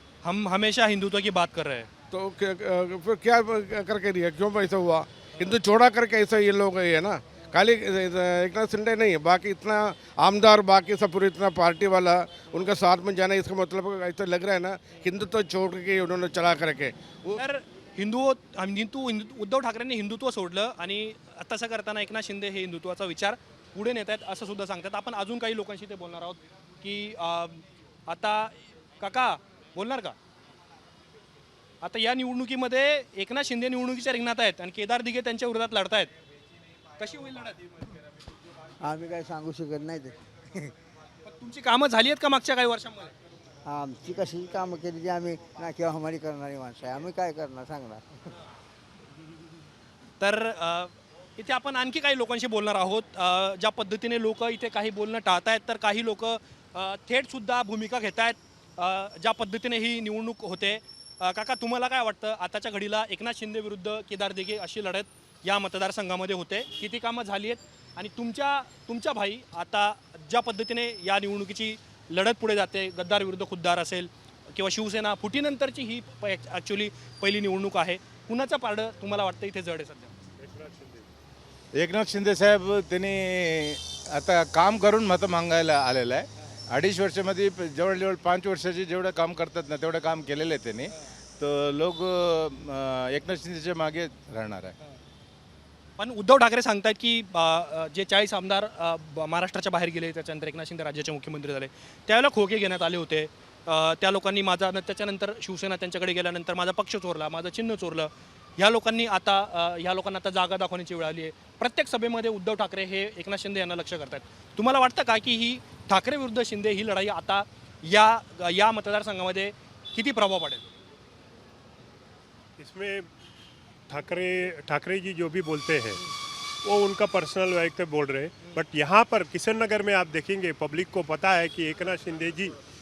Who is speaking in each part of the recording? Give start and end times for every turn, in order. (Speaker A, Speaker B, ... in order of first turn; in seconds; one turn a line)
Speaker A: 0.2-1.9
Speaker B: 2.1-17.4
Speaker A: 17.4-30.1
Speaker A: 31.8-36.1
Speaker A: 37.0-37.6
Speaker C: 38.8-40.7
Speaker A: 41.2-43.1
Speaker C: 43.6-48.1
Speaker A: 50.2-80.1
Speaker D: 80.4-81.0
Speaker E: 81.8-94.7
Speaker A: 96.0-120.7
Speaker D: 122.6-123.1
Speaker D: 123.9-126.0
Speaker D: 126.6-132.5